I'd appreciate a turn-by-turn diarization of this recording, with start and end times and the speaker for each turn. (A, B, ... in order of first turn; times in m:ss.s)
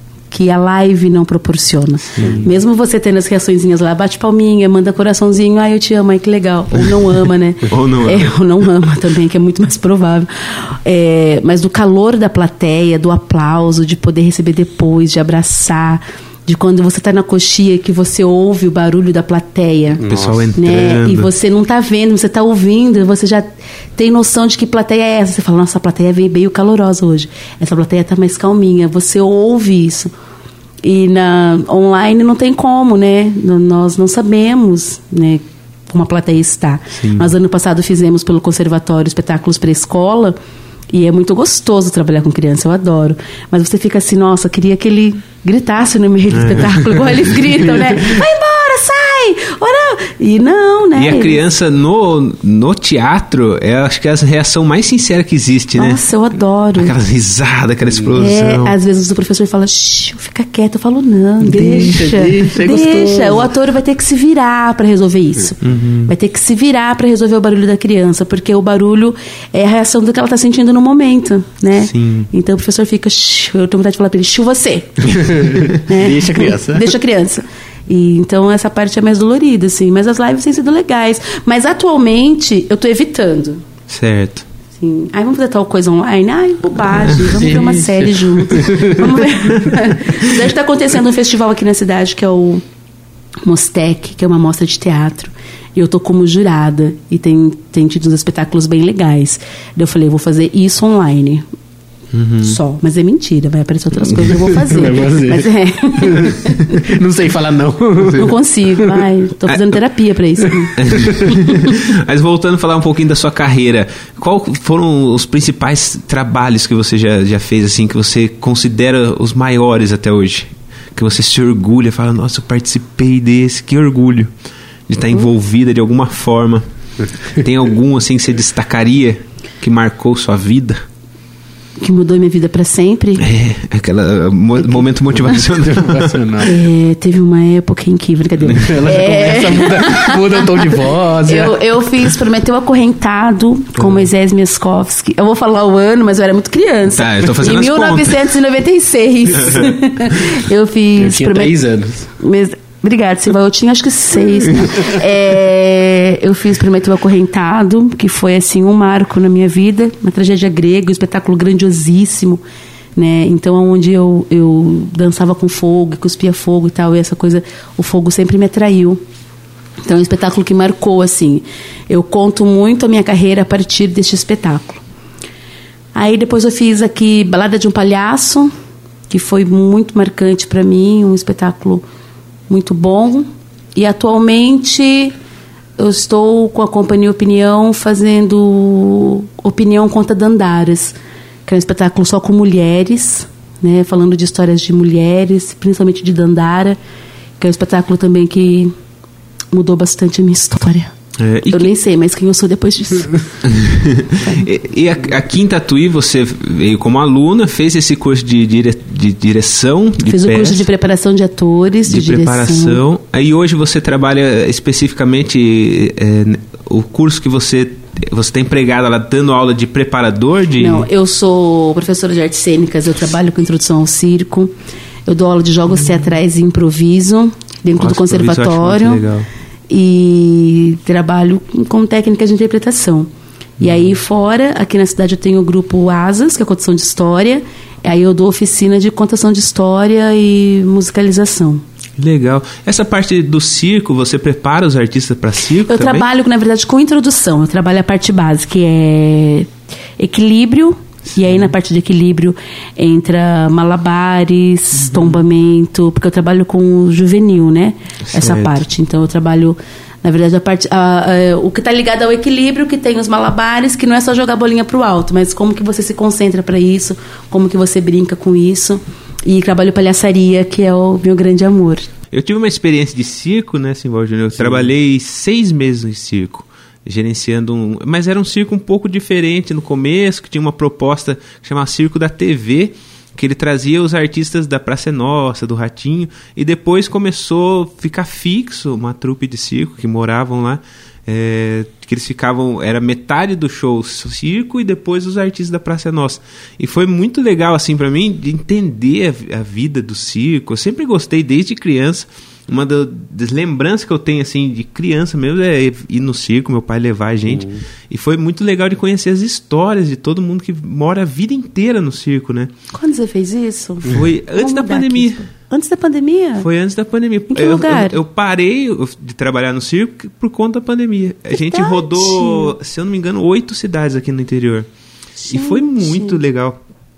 0:00.3-0:20.0 A
0:02.2-0:02.5 B
0:07.7-0:08.4 B
0:20.0-0:20.5 C
0:20.1-0:21.3 B
0:20.6-0:30.1 A
0:30.8-0:40.4 A
0:37.0-0:37.3 B
0:40.9-0:51.4 A
0:46.3-0:47.3 B
0:50.9-0:56.0 B
0:55.8-0:56.9 A
0:56.7-0:58.8 B
0:57.9-0:58.1 C
0:58.2-1:23.6 A
1:01.4-1:03.5 C
1:05.6-1:06.1 B
1:11.8-1:12.3 B
1:15.1-1:16.9 C
1:23.9-1:24.4 B
1:24.7-1:32.6 A
1:27.2-1:29.1 C
1:29.6-1:30.1 B
1:33.4-1:41.4 A
1:42.1-1:42.6 B
1:42.4-1:46.9 A
1:44.2-1:48.3 C
1:48.0-1:48.3 B
1:48.2-1:50.7 A
1:50.8-2:04.3 B
1:50.9-1:51.2 C
2:04.9-2:10.8 B
2:11.8-2:13.3 A
2:13.2-2:16.4 B
2:15.2-2:16.6 C
2:16.4-2:31.5 A
2:18.5-2:21.6 C
2:23.8-2:24.0 B
2:26.9-2:28.3 B
2:29.3-2:29.8 B
2:31.0-2:32.1 C
2:32.2-2:42.4 A
2:43.0-2:49.0 A
2:49.8-2:54.8 A
2:55.9-2:58.5 A
2:59.1-3:01.8 A
3:02.5-3:05.1 A
3:05.8-3:16.8 A
3:17.4-3:18.7 A
3:19.5-3:20.9 A
3:21.2-3:21.7 B
3:21.5-3:23.2 A
3:23.4-3:30.7 B
3:30.0-3:32.8 A
3:31.8-3:40.9 B
3:40.6-3:44.5 A
3:45.0-3:49.0 A
3:47.8-3:49.3 B
3:49.7-4:01.6 A
3:53.6-3:53.9 B
4:02.0-4:06.0 B
4:05.6-4:31.9 A
4:11.1-4:11.5 B
4:14.8-4:15.2 B
4:18.0-4:18.6 B
4:32.1-5:12.5 B
5:07.3-5:07.6 C
5:12.7-5:16.5 A
5:13.8-5:15.2 B
5:16.4-5:24.7 B
5:17.3-5:18.0 A
5:21.3-5:22.5 A
5:25.2-5:26.2 A
5:25.3-5:26.6 B